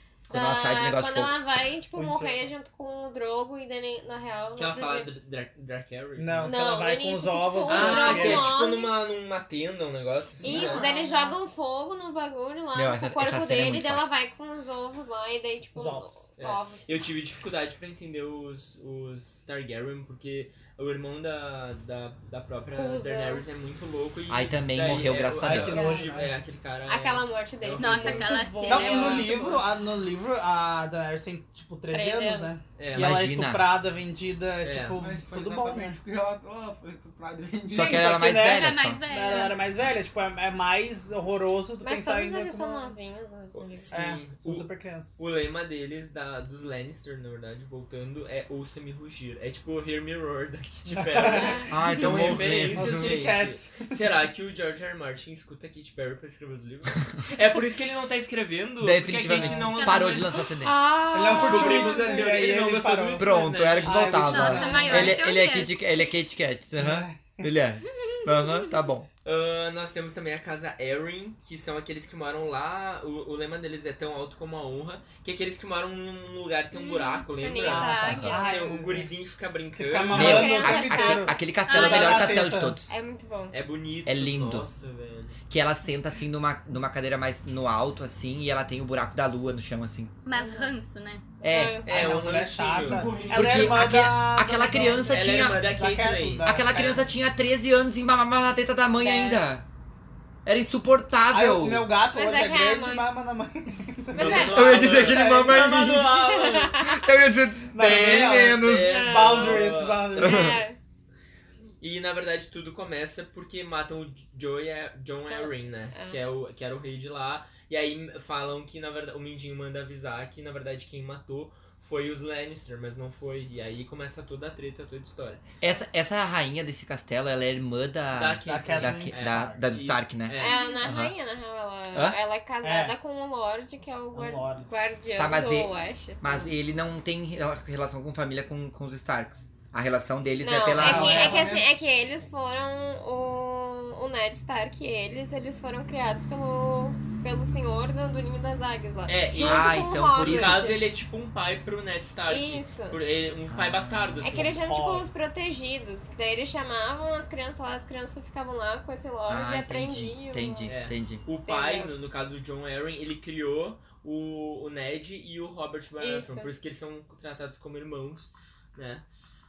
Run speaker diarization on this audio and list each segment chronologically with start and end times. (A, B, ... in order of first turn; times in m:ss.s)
0:00.3-0:01.4 A
0:00.3-0:05.1 B
0:01.9-0:02.5 C
0:04.6-0:06.6 D
0:06.2-0:08.6 C
0:06.4-0:08.9 B
0:07.7-0:10.8 D
0:10.4-0:11.4 E
0:10.4-0:17.0 B
0:12.7-0:14.1 A
0:15.7-0:16.1 C
0:16.4-0:29.1 D
0:22.7-0:23.4 B
0:24.3-0:25.9 A
0:25.4-0:26.3 C
0:26.9-0:28.9 B
0:27.8-0:29.5 F
0:28.6-0:36.0 C
0:31.9-0:32.6 B
0:32.8-0:33.2 D
0:32.9-0:33.7 A
0:34.6-0:35.0 D
0:35.0-0:38.1 E
0:37.7-0:39.0 A
0:37.7-0:42.9 C
0:38.4-0:39.6 F
0:41.8-0:43.9 B
0:43.5-1:00.3 D
0:43.9-0:45.2 C
0:50.9-0:51.6 C
0:51.2-0:51.7 B
0:51.7-0:53.1 A
0:52.7-0:53.9 C
0:58.8-1:00.7 A
0:59.8-1:00.3 F
1:00.6-1:02.4 B
1:01.1-1:05.2 C
1:01.3-1:04.4 D
1:03.2-1:09.1 A
1:04.2-1:05.7 F
1:04.6-1:05.3 B
1:06.8-1:07.5 C
1:09.2-1:20.5 D
1:16.7-1:18.6 B
1:17.6-1:19.1 C
1:18.0-1:18.4 A
1:19.8-1:22.8 C
1:20.1-1:21.4 B
1:20.1-1:22.9 A
1:21.6-1:22.4 F
1:21.9-1:23.5 B
1:23.5-1:25.4 D
1:24.0-1:24.7 A
1:25.5-1:30.1 A
1:30.2-1:31.2 F
1:30.3-1:30.7 B
1:31.4-1:32.3 B
1:31.4-1:31.8 A
1:31.8-1:33.3 D
1:31.9-1:37.0 C
1:32.7-1:33.8 E
1:33.3-1:35.6 A
1:35.0-1:37.0 D
1:36.4-1:39.6 A
1:39.0-1:39.4 B
1:40.4-1:41.9 A
1:41.3-1:44.7 C
1:42.1-1:43.1 B
1:44.1-1:47.1 B
1:44.2-1:46.8 D
1:44.2-1:46.2 A
1:46.8-1:49.0 A
1:47.7-1:50.5 C
1:47.8-1:50.6 D
1:48.8-1:50.8 B
1:50.2-1:50.6 A
1:51.8-2:05.4 D
1:55.3-1:56.2 B
2:05.6-2:11.1 A
2:08.1-2:10.7 D
2:08.4-2:09.6 C
2:10.4-2:16.5 B
2:12.6-2:13.0 C
2:14.1-2:14.7 C
2:15.1-2:21.4 A
2:20.4-2:30.8 B
2:20.7-2:21.5 C
2:20.8-2:21.7 E
2:29.1-2:34.5 D
2:29.4-2:30.7 A
2:32.3-2:33.0 B
2:33.5-2:34.4 A
2:34.2-2:40.7 B
2:34.4-2:35.1 C
2:39.3-2:41.2 A
2:40.7-2:49.0 D
2:41.3-2:41.9 B
2:46.0-2:46.5 B